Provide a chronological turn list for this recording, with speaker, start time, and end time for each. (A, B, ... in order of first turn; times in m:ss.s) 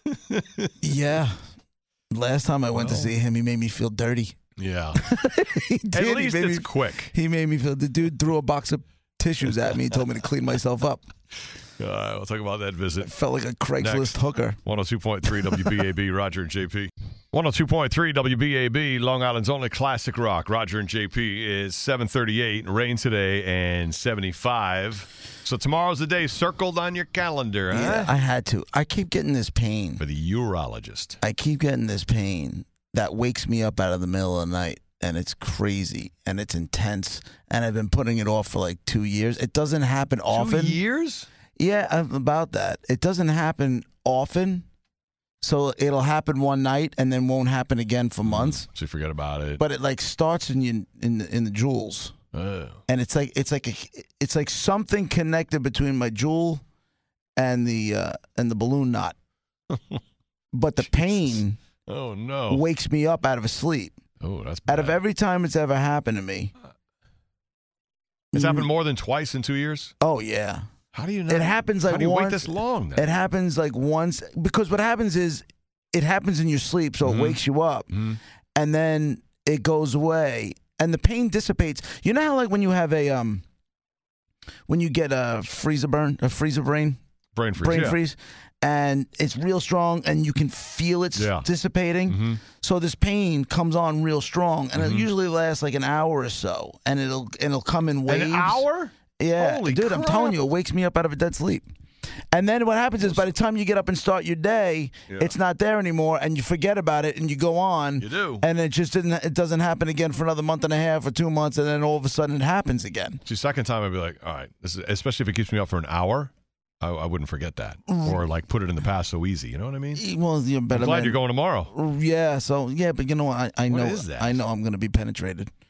0:00.1-0:00.7 A
0:00.8-0:01.4 B
0:02.1-0:04.4 B
0:02.8-0:03.1 A
0:04.6-0:05.0 A
0:04.9-0:11.0 B
0:05.9-0:07.1 A
0:11.8-0:13.1 A
0:13.0-0:14.6 B
0:13.8-0:28.1 A
0:27.7-0:30.0 B
0:30.0-0:31.2 A
0:31.2-0:40.8 B
0:40.3-0:41.3 A
0:41.6-0:44.7 B
0:45.4-0:48.7 B
0:48.2-0:49.6 A
0:49.6-0:52.1 B
0:52.3-0:52.8 A
0:52.9-0:56.6 B
0:57.4-0:59.2 B
0:59.7-1:00.0 A
1:00.5-1:01.6 B
1:00.8-1:02.6 A
1:02.5-1:04.0 B
1:04.2-1:05.0 A
1:04.7-1:06.5 B
1:08.3-1:08.7 B
1:08.3-1:09.9 A
1:10.0-1:10.7 B
1:10.9-1:13.1 A
1:11.3-1:18.0 B
1:17.0-1:17.4 A
1:17.9-1:18.2 A
1:18.6-1:23.4 B
1:24.7-1:27.0 B
1:27.4-1:28.0 A
1:27.6-1:38.6 B
1:31.2-1:31.5 A
1:32.1-1:32.4 A
1:34.8-1:35.1 A
1:38.1-1:40.4 A
1:39.2-1:41.7 B
1:42.3-1:53.2 B
1:45.1-1:45.3 A
1:48.0-1:48.4 A
1:53.2-2:00.0 A
1:57.9-1:58.2 B
2:00.0-2:05.5 B
2:00.7-2:01.7 A
2:03.7-2:04.4 A